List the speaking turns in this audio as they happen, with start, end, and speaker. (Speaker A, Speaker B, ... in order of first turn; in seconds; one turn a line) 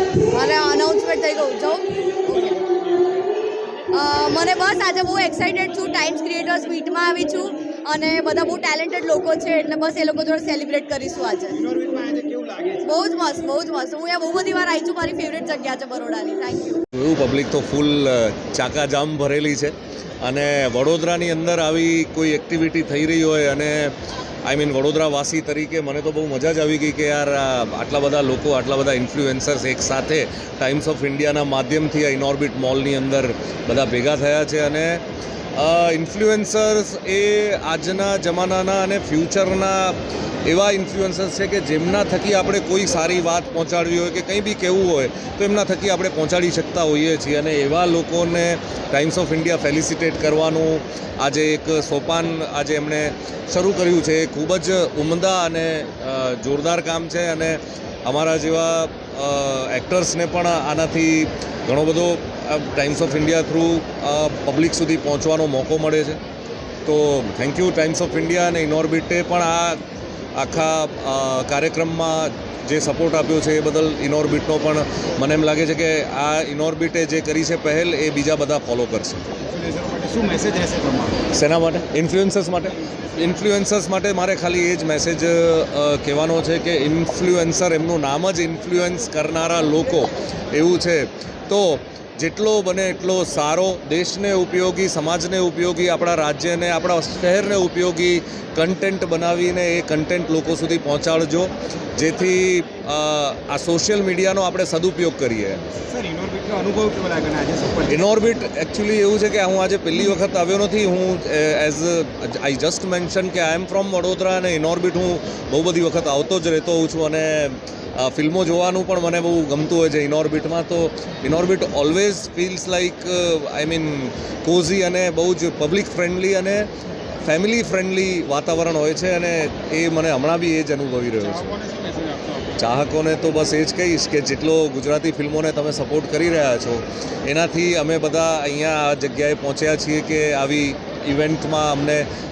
Speaker A: 0.3-2.7
Speaker A: 3.9-11.6
Speaker B: 11.5-12.8
Speaker A: 12.8-16.8
Speaker C: 16.9-35.0
Speaker C: 35.5-66.2
Speaker C: 66.8-69.8
Speaker C: 70.3-79.2
Speaker B: 79.5-81.2
Speaker C: 81.3-105.6
Speaker B: 105.9-108.0
Speaker C: 107.9-126.7
Speaker C: 127.2-131.4
Speaker B: 131.2-132.5
Speaker C: 132.6-142.1